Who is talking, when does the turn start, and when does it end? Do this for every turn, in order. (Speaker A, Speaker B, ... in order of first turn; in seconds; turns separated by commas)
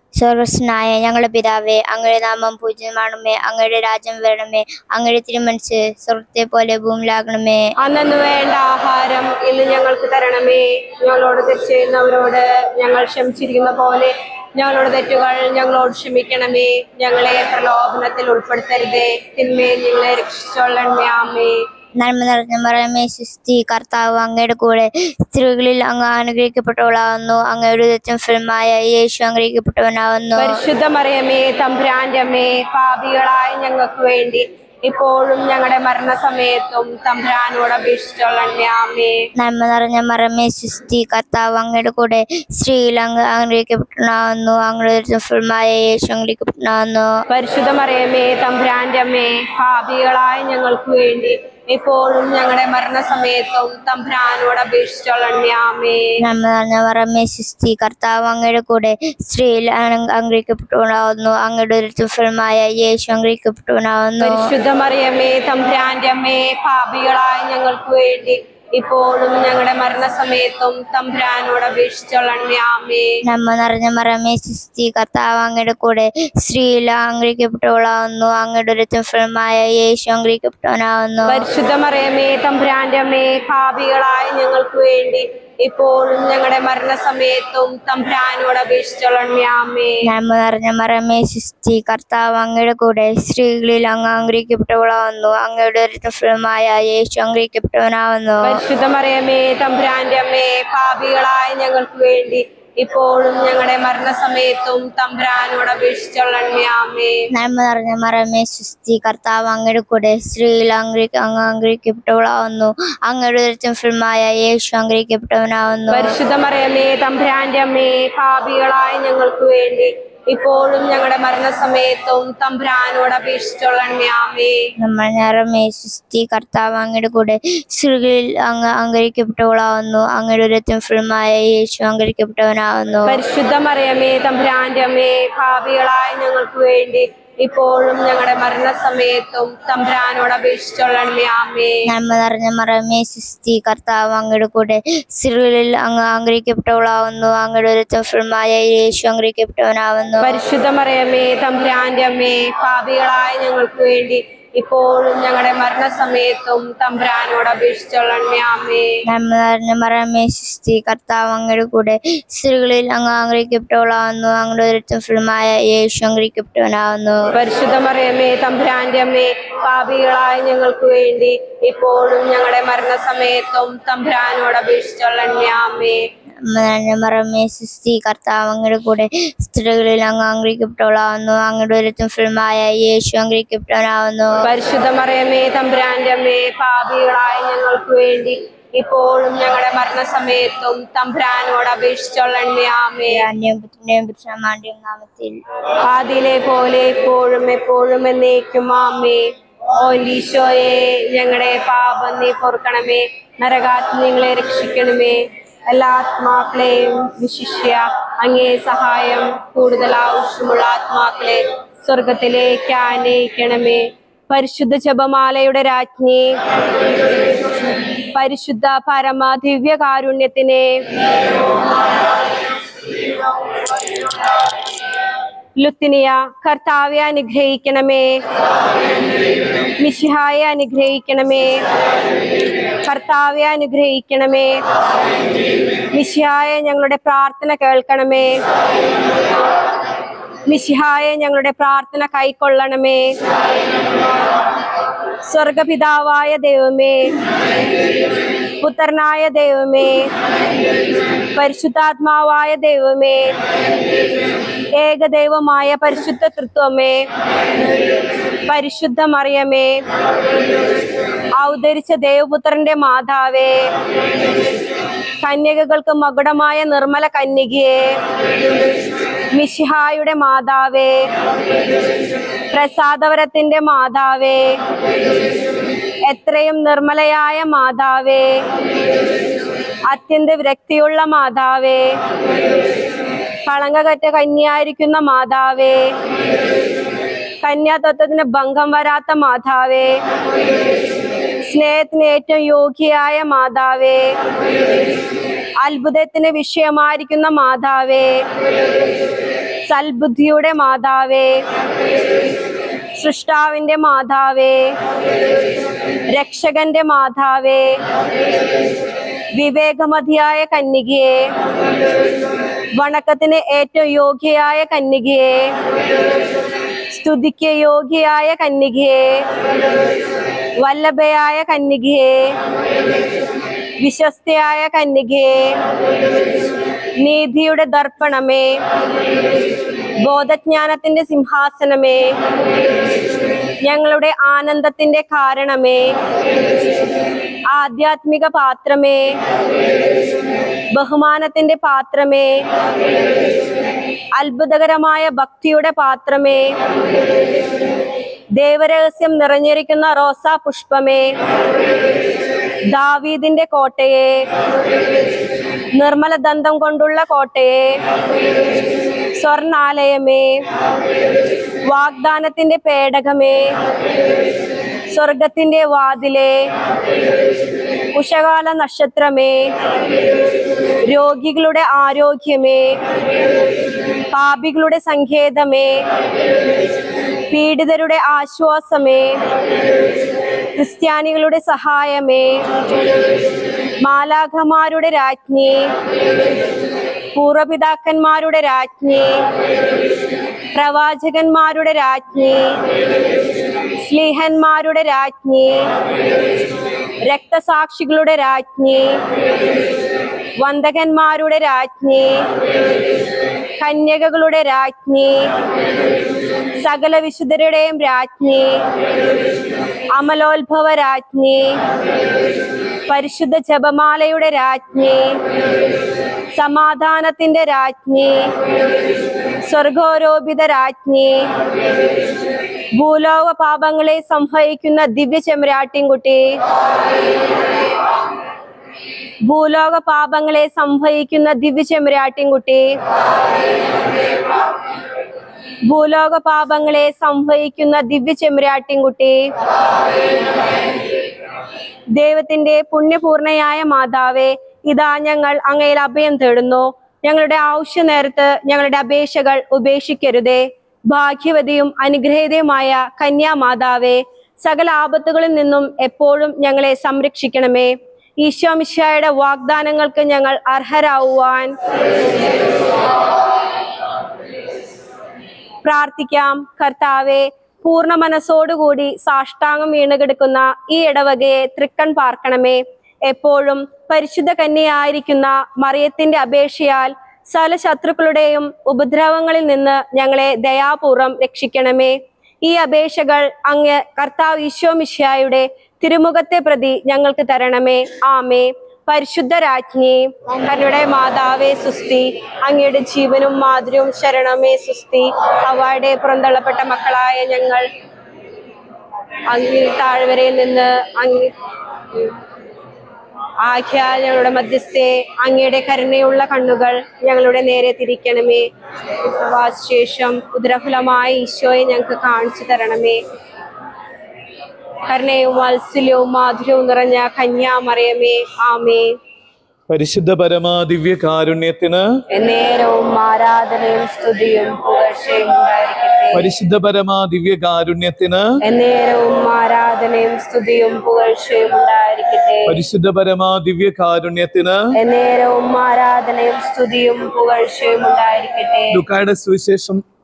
Speaker A: 0.2-7.7, Speaker B: 7.8-21.6, Speaker A: 22.0-30.5, Speaker B: 30.4-39.3, Speaker A: 39.4-47.1, Speaker B: 47.3-56.2, Speaker A: 56.2-64.5, Speaker B: 64.2-73.2, Speaker A: 73.3-81.5, Speaker B: 81.3-90.1, Speaker A: 90.1-98.6, Speaker B: 98.4-107.3, Speaker A: 107.3-116.1, Speaker B: 115.9-124.6, Speaker A: 124.8-133.2, Speaker B: 133.1-141.9, Speaker A: 141.9-150.4, Speaker B: 150.2-159.0, Speaker A: 159.1-167.3, Speaker B: 167.3-176.1, Speaker A: 176.5-184.4, Speaker B: 184.4-193.3, Speaker A: 193.1-195.4, Speaker B: 195.9-216.3, Speaker B: 218.2-220.8, Speaker B: 225.6-228.2, Speaker B: 229.8-231.6, Speaker B: 232.8-234.6, Speaker B: 235.9-238.4, Speaker B: 240.5-243.1, Speaker B: 245.2-247.1, Speaker B: 248.6-250.1, Speaker B: 251.3-253.3, Speaker B: 254.8-257.1, Speaker B: 258.5-259.8, Speaker B: 261.4-263.7, Speaker B: 265.2-267.9, Speaker B: 269.3-271.1, Speaker B: 272.5-274.6, Speaker B: 276.1-278.4, Speaker B: 279.9-282.0, Speaker B: 283.5-285.9, Speaker B: 287.4-290.0, Speaker B: 291.5-294.2, Speaker B: 295.6-298.2, Speaker B: 299.7-301.4, Speaker B: 303.0-304.7, Speaker B: 306.1-307.8, Speaker B: 309.4-311.3, Speaker B: 312.8-315.5, Speaker B: 316.9-319.3, Speaker B: 320.6-322.3, Speaker B: 323.8-325.6, Speaker B: 327.0-328.6, Speaker B: 330.0-332.1, Speaker B: 333.6-335.9, Speaker B: 337.5-339.1, Speaker B: 340.7-342.4, Speaker B: 344.2-346.6, Speaker B: 348.4-351.1, Speaker B: 352.7-354.3, Speaker B: 355.8-357.8, Speaker B: 359.2-360.4, Speaker B: 361.7-363.5, Speaker B: 364.9-366.4, Speaker B: 367.9-369.5, Speaker B: 370.8-372.8, Speaker B: 374.1-375.8, Speaker B: 377.3-379.2, Speaker B: 380.6-382.5, Speaker B: 383.8-385.7, Speaker B: 387.1-389.2, Speaker B: 390.5-392.6, Speaker B: 393.8-395.7, Speaker B: 397.1-399.0, Speaker B: 400.4-402.3, Speaker B: 403.6-405.3, Speaker B: 406.6-408.6, Speaker B: 410.0-411.6, Speaker B: 412.9-415.2, Speaker B: 416.4-418.3, Speaker B: 419.4-421.3, Speaker B: 422.8-426.2, Speaker B: 429.3-432.7, Speaker B: 435.7-439.3, Speaker B: 442.0-461.6, Speaker B: 465.6-497.7, Speaker B: 499.3-501.3, Speaker B: 503.4-508.5, Speaker B: 509.0-513.0, Speaker B: 514.9-519.0, Speaker C: 519.7-522.0, Speaker B: 522.1-526.3, Speaker C: 526.1-528.3, Speaker B: 528.4-532.6, Speaker C: 532.5-534.6, Speaker B: 534.8-538.8, Speaker C: 538.7-539.8